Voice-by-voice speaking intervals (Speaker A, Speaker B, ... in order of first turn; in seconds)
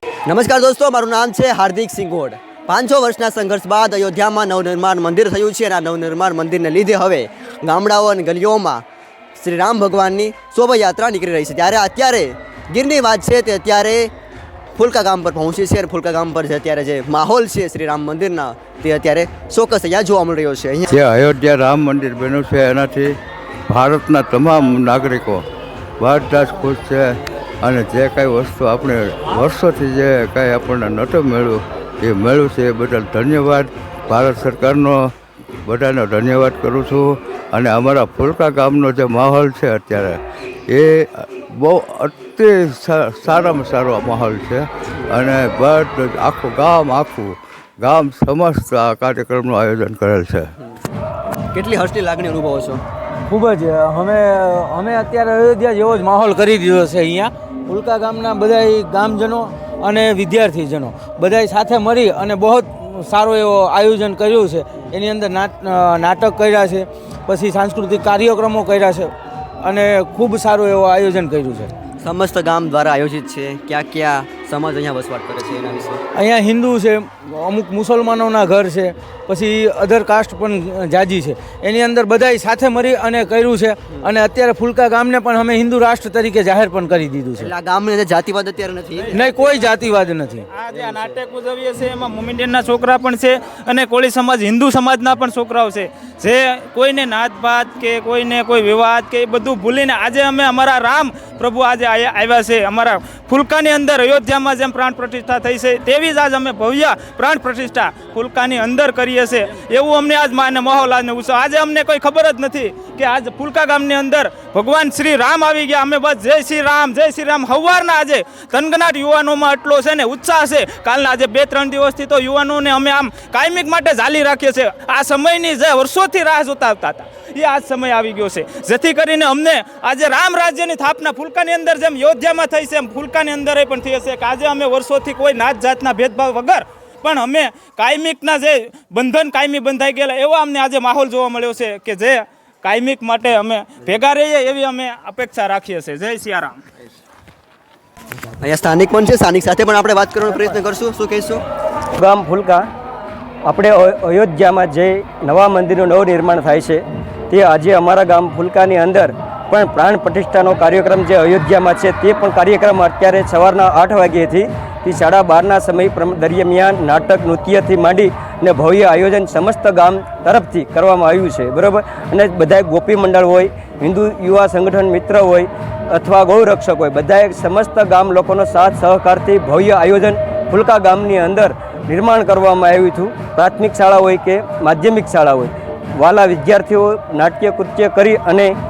Speaker A: 0.2-8.8, 9.3-14.1, 14.7-20.9, 51.5-52.8, 72.0-76.0, 87.4-89.4, 148.4-151.4
Speaker B: 20.9-23.1, 23.7-25.4, 26.0-35.1, 35.6-50.5
Speaker C: 53.3-71.7, 76.1-87.5, 89.1-90.4
Speaker D: 90.5-146.6
Speaker E: 152.0-152.7, 153.4-188.5